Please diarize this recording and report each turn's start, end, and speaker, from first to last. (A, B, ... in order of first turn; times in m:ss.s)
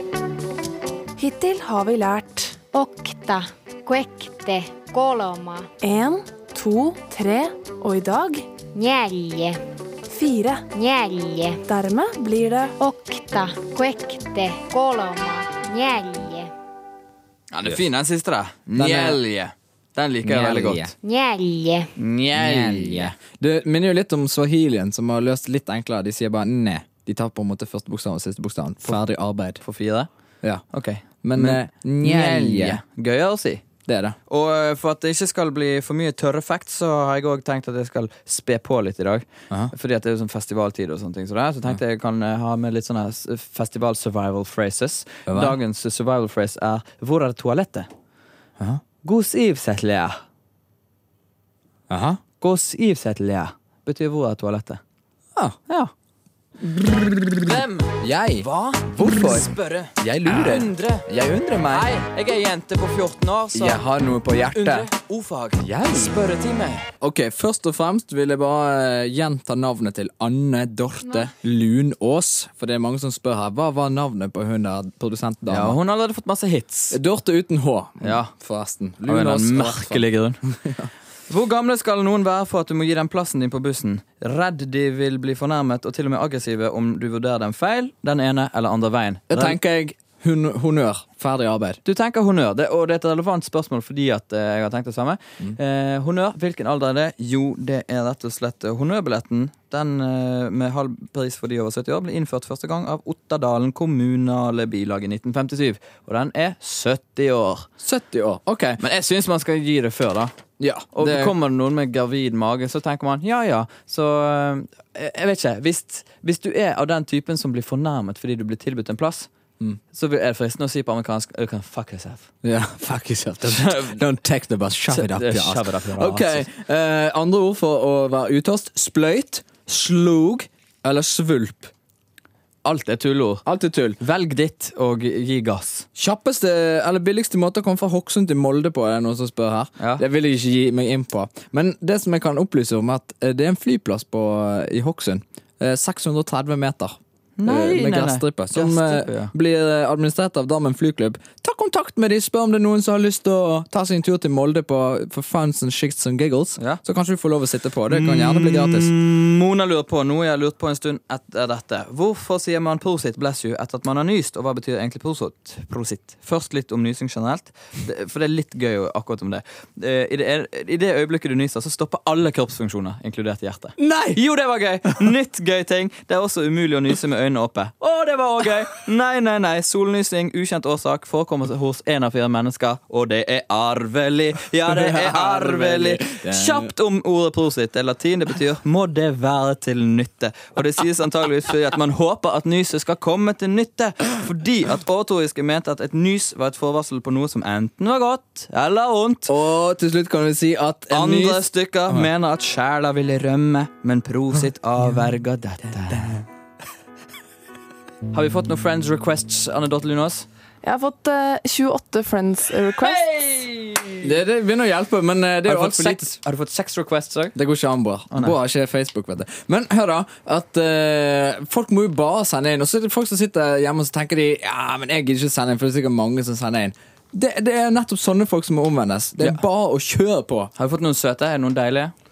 0:01.2-0:02.6 A
0:02.7-0:05.7 B
0:05.8-0:08.5 A
0:08.7-0:09.6 B
0:10.1-0:10.7 A
0:10.7-0:11.6 B
0:11.7-0:12.7 A
0:12.8-0:16.5 B
0:17.5-0:20.9 C
0:18.8-0:19.2 D
0:20.2-0:20.9 D
0:21.0-0:21.9 B
0:22.0-0:23.2 C
0:22.3-0:29.6 D
0:29.6-0:30.1 C
0:30.7-0:33.6 C
0:31.2-0:32.8 D
0:33.8-0:34.2 D
0:34.3-0:47.9 C
0:45.3-0:45.6 D
0:49.0-0:50.2 C
0:51.9-0:52.2 D
0:52.4-0:54.8 C
0:56.6-1:01.9 D
0:57.4-1:01.1 C
1:01.7-1:03.8 C
1:03.5-1:04.9 D
1:04.5-1:06.9 C
1:05.7-1:06.1 D
1:07.0-1:15.8 D
1:15.5-1:17.0 C
1:16.9-1:20.9 D
1:18.0-1:18.3 C
1:19.1-1:20.4 C
1:21.3-1:29.6 C
1:29.3-1:31.8 D
1:31.8-1:47.7 C
1:47.8-1:48.8 D
1:48.8-1:50.3 C
1:50.6-1:51.3 D
1:50.9-1:59.3 C
1:59.9-2:02.3 C
2:02.4-2:11.7 D
2:03.5-2:03.9 C
2:04.9-2:06.5 C
2:12.6-2:13.4 C
2:13.4-2:14.0 D
2:14.0-2:15.9 C
2:16.0-2:38.9 D
2:19.8-2:20.0 C
2:27.4-2:29.3 C
2:37.9-3:19.3 C
2:53.8-2:54.2 D
3:04.7-3:06.7 D
3:19.3-3:22.1 D
3:20.9-3:26.2 C
3:25.9-3:26.1 D
3:28.1-3:30.3 C
3:30.6-3:33.0 A
3:32.8-3:34.1 C
3:34.0-3:36.2 D
3:35.5-3:37.4 C
3:37.4-3:50.5 D
3:38.1-3:38.4 C
3:50.6-3:51.9 C